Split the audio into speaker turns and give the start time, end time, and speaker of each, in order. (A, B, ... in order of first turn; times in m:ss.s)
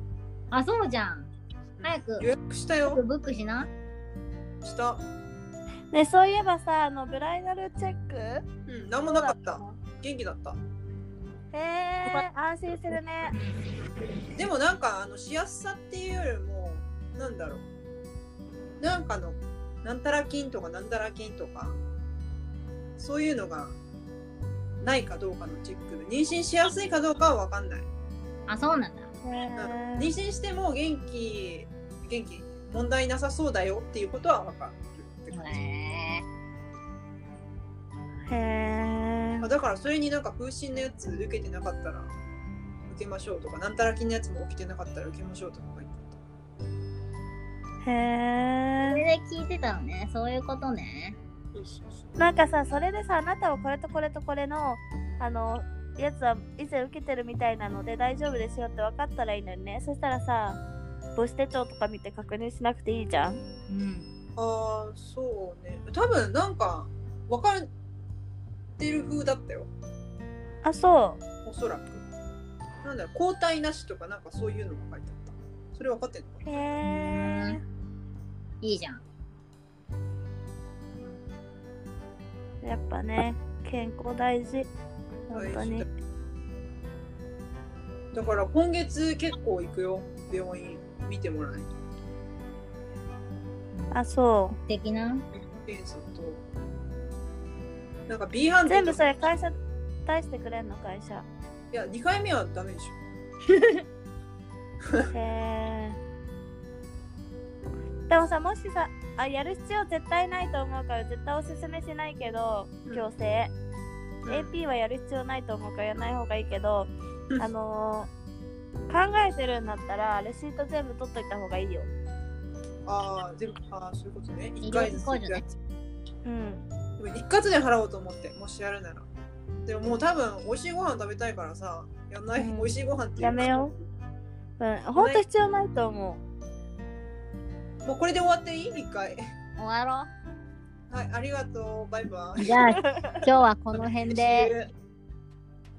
0:00.5-0:01.3 A
0:01.8-0:03.0 B
0:01.8-0:02.3 A
0:02.8-0:03.7 A
0:04.6-0:05.0 B
0:05.9-0:08.4 C
0:08.7-0:10.6 B
0:09.0-0:09.8 C
0:11.5-0:13.3 C
0:14.3-0:17.6 B
0:18.8-0:21.8 B
0:23.0-0:23.8 B
0:24.8-0:27.9 B
0:28.5-0:29.1 A
0:29.2-0:30.1 C
0:29.6-0:35.6 B
0:35.3-0:36.2 A
0:38.3-0:39.5 C
0:39.4-0:42.1 B
0:42.9-0:46.2 B
0:47.8-0:49.0 C
0:48.8-0:51.2 A
0:51.5-0:52.2 B
0:52.2-1:00.6 C
1:01.2-1:03.4 C
1:03.7-1:04.1 A
1:04.4-1:07.7 B
1:08.8-1:09.7 B
1:10.6-1:11.2 C
1:11.4-1:12.0 B
1:12.8-1:16.4 B
1:16.4-1:17.6 C
1:16.8-1:17.6 A
1:18.6-1:19.0 A
1:22.6-1:24.7 C
1:25.3-1:25.8 C
1:25.3-1:25.9 B
1:28.1-1:31.7 B
1:33.7-1:34.0 A
1:33.9-1:34.6 C
1:34.6-1:35.2 A
1:35.3-1:36.4 B
1:38.1-1:39.0 B
1:38.6-1:41.3 C
1:41.7-1:43.0 B
1:45.1-1:46.0 C
1:48.1-1:53.5 C
1:54.2-1:54.5 B
1:54.3-1:58.1 C
1:58.9-2:01.9 C
2:02.8-2:05.5 B
2:04.6-2:05.4 A
2:06.2-2:06.6 C
2:07.0-2:09.1 B
2:09.6-2:13.8 B
2:12.4-2:13.7 C
2:14.6-2:16.2 C
2:15.0-2:15.2 B
2:17.8-2:19.2 B
2:19.6-2:20.1 A
2:20.9-2:22.5 B
2:22.4-2:24.5 A
2:22.6-2:23.2 C
2:23.7-2:24.7 B